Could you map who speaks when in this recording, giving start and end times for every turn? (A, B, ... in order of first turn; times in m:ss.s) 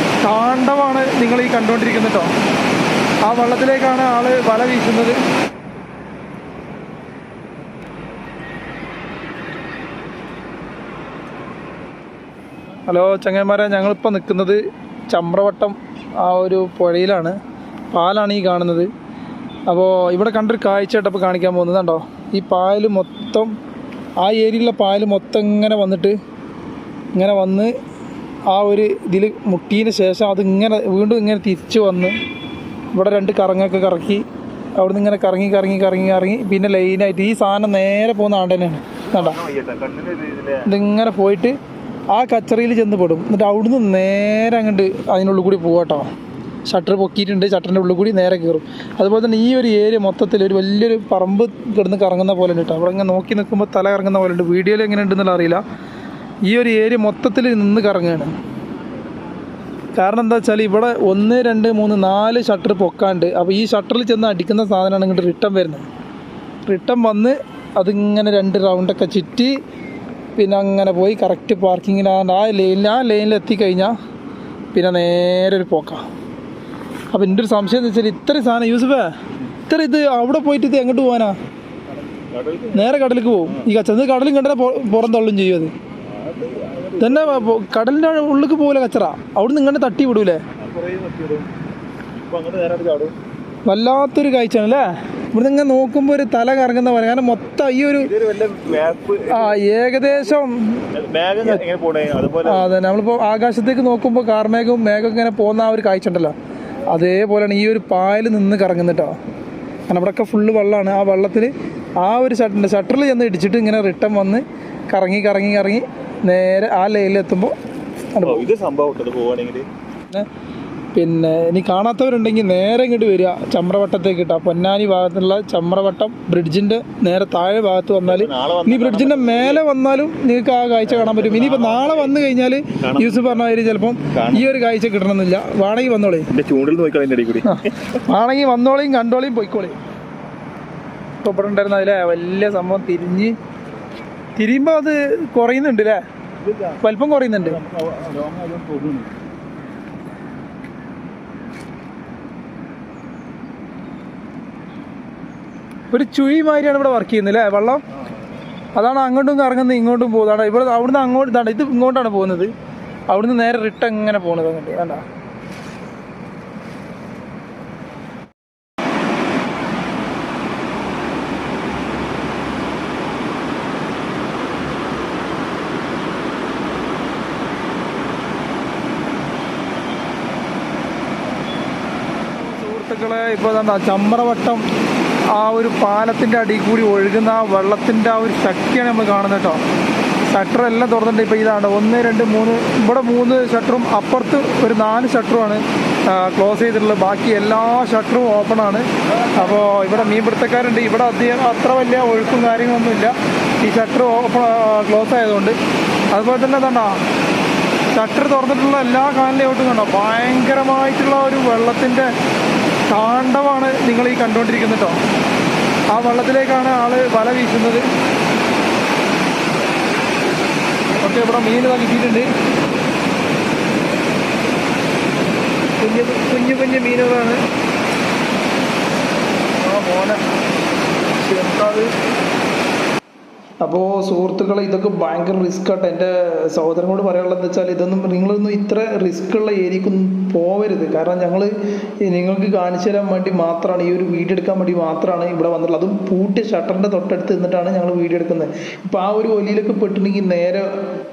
0:00.2-0:02.3 A
0:03.2-0:05.2 A
0:12.9-0:17.4 A
0:17.9-0:18.9 A
0:19.7-0:23.5 A
0:24.2-0:26.2 A
0:27.1-0:27.7 A
0:28.5-0:32.2 A
0:32.9-0:34.2 A
0:34.8-0:39.4 A
0:39.0-0:40.7 B
0:40.6-0:41.6 A
0:42.1-0:46.1 A
0:46.7-0:55.6 A
0:56.5-0:58.3 A
0:59.9-1:05.9 A
1:06.7-1:09.6 A
1:10.4-1:13.9 A
1:14.7-1:16.0 A
1:17.1-1:19.1 A
1:19.6-1:21.4 A
1:22.1-1:23.7 B
1:22.7-1:25.7 A
1:26.1-1:27.6 B
1:27.0-1:30.4 A
1:30.6-1:31.5 B
1:32.1-1:33.1 B
1:33.7-1:38.1 A
1:38.0-1:40.3 B
1:39.3-1:40.8 A
1:40.9-1:42.7 B
1:42.4-1:46.3 A
1:46.9-1:49.2 A
1:49.9-1:57.6 A
1:58.1-1:58.5 A
1:58.2-1:59.7 B
2:00.9-2:16.3 A
2:08.0-2:09.6 B
2:10.8-2:12.2 B
2:12.8-2:13.5 B
2:14.1-2:14.5 B
2:16.3-2:18.0 B
2:17.4-2:19.8 A
2:21.2-2:23.4 A
2:24.4-2:26.0 A
2:26.4-2:26.8 B
2:26.8-2:27.6 A
2:27.4-2:29.2 B
2:35.9-2:37.8 A
2:38.7-2:42.5 A
2:43.1-2:45.0 A
3:02.4-3:04.6 A
3:05.3-3:09.6 A
3:10.3-3:25.6 A
3:26.1-3:27.0 A
3:27.9-3:32.1 A
3:32.9-3:35.0 A
3:35.9-3:37.8 A
3:41.0-3:42.3 A
3:45.8-3:47.4 A
3:49.6-3:50.2 A
3:51.2-3:51.9 A
3:53.6-4:10.7 A